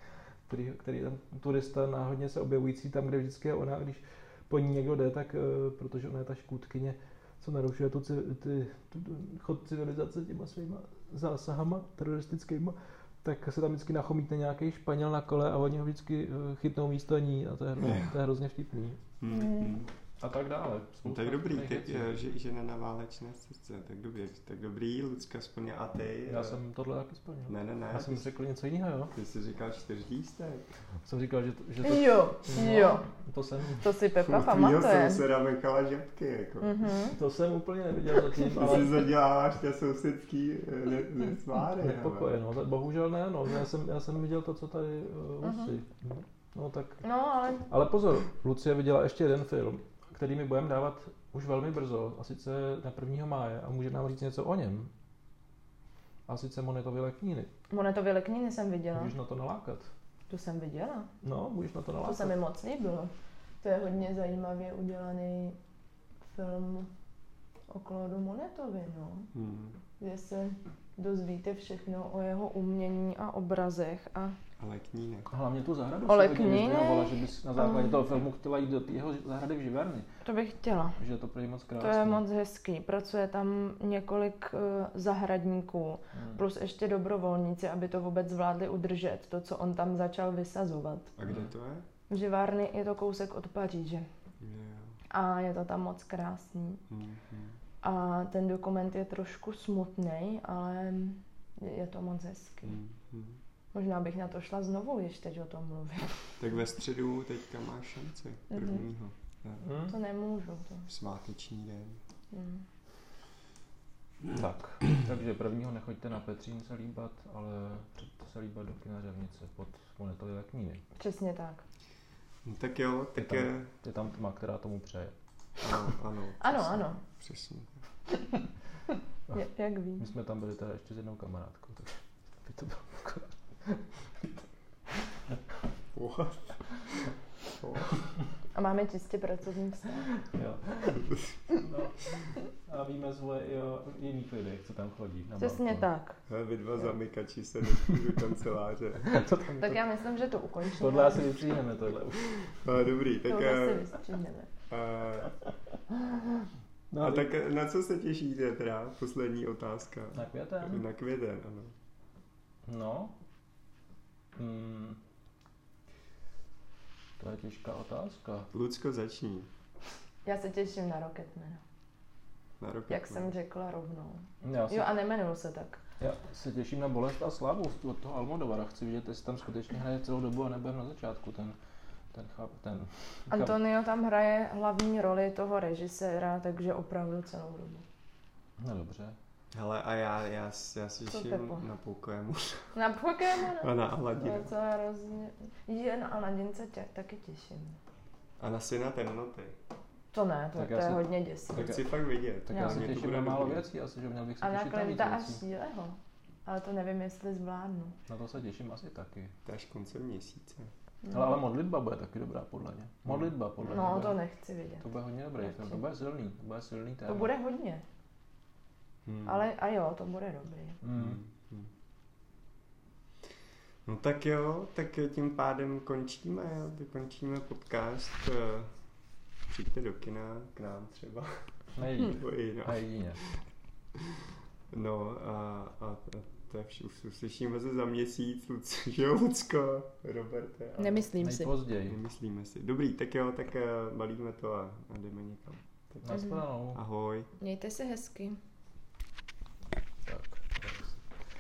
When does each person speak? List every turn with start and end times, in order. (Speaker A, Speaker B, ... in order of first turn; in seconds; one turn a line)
Speaker A: 0.5-19.0
Speaker B: 17.8-18.1
Speaker B: 19.2-19.9
Speaker C: 19.3-19.8
Speaker A: 20.2-22.3
Speaker B: 21.1-26.6
Speaker A: 26.3-29.1
Speaker B: 27.5-28.3
Speaker B: 29.1-30.7
Speaker A: 31.1-33.9
Speaker C: 31.8-33.1
Speaker C: 33.8-35.2
Speaker B: 34.2-36.7
Speaker C: 36.6-37.2
Speaker A: 37.1-39.1
Speaker B: 38.5-42.3
Speaker A: 41.8-47.0
Speaker C: 45.4-45.7
Speaker C: 47.0-47.7
Speaker A: 47.7-54.9
Speaker A: 56.3-57.5
Speaker C: 57.7-59.1
Speaker A: 59.0-59.9
Speaker C: 60.3-61.1
Speaker A: 61.2-62.4
Speaker C: 62.0-65.6
Speaker C: 66.3-66.9
Speaker C: 67.7-69.3
Speaker B: 69.3-69.8
Speaker C: 70.0-74.4
Speaker B: 74.6-75.3
Speaker A: 75.3-80.1
Speaker C: 76.0-78.0
Speaker C: 80.2-81.0
Speaker A: 81.0-82.2
Speaker C: 81.8-91.2
Speaker A: 86.1-86.4
Speaker B: 91.2-91.9
Speaker C: 92.1-94.1
Speaker B: 94.4-95.0
Speaker C: 95.1-96.8
Speaker B: 96.9-97.6
Speaker C: 97.8-102.8
Speaker B: 102.6-103.4
Speaker C: 103.7-106.2
Speaker B: 106.4-109.7
Speaker C: 108.5-108.8
Speaker A: 109.6-110.0
Speaker C: 109.9-110.9
Speaker B: 110.9-112.0
Speaker C: 112.3-112.6
Speaker A: 114.3-120.8
Speaker C: 121.0-121.6
Speaker B: 122.5-123.7
Speaker A: 123.2-125.1
Speaker B: 125.6-127.8
Speaker C: 126.4-127.0
Speaker C: 129.3-130.1
Speaker A: 130.0-134.4
Speaker B: 135.9-137.9
Speaker C: 138.5-140.2
Speaker A: 140.2-141.1
Speaker A: 141.6-142.0
Speaker A: 142.7-145.9
Speaker C: 145.4-146.2
Speaker B: 146.3-149.1
Speaker A: 149.0-149.8
Speaker C: 149.6-151.3
Speaker A: 150.8-152.5
Speaker B: 152.6-153.9
Speaker C: 153.3-154.5
Speaker B: 154.7-155.4
Speaker A: 156.9-157.3
Speaker B: 157.0-161.7
Speaker A: 160.1-160.8
Speaker A: 162.7-163.1
Speaker A: 164.3-165.0
Speaker A: 167.2-168.5
Speaker B: 168.5-169.5
Speaker C: 170.2-171.6
Speaker B: 172.6-173.3
Speaker C: 172.9-175.8
Speaker A: 174.4-174.9
Speaker A: 176.0-181.6
Speaker A: 182.1-183.6
Speaker C: 183.3-187.9
Speaker A: 188.6-189.2
Speaker B: 189.5-192.7
Speaker C: 191.1-191.6
Speaker C: 192.8-197.8
Speaker B: 193.6-194.5
Speaker B: 198.4-199.6
Speaker C: 200.1-201.8
Speaker A: 200.6-201.8
Speaker B: 201.5-203.6
Speaker A: 202.5-205.4
Speaker C: 202.5-202.8
Speaker C: 204.4-207.9
Speaker A: 208.1-209.3
Speaker B: 209.4-210.7
Speaker C: 211.0-211.3
Speaker A: 211.1-214.2
Speaker C: 213.7-214.8
Speaker A: 214.8-217.3
Speaker C: 215.4-215.8
Speaker C: 217.1-217.8
Speaker B: 219.1-219.4
Speaker C: 219.3-220.8
Speaker A: 220.8-221.2
Speaker B: 220.9-221.7
Speaker B: 223.9-228.7
Speaker B: 229.5-231.5
Speaker A: 231.8-233.2
Speaker B: 232.0-233.4
Speaker B: 234.7-241.1
Speaker C: 240.8-241.5
Speaker A: 241.2-242.0
Speaker B: 241.9-246.2
Speaker A: 246.0-246.8
Speaker C: 246.1-246.4
Speaker B: 246.7-247.3
Speaker C: 247.4-248.4
Speaker A: 250.1-251.1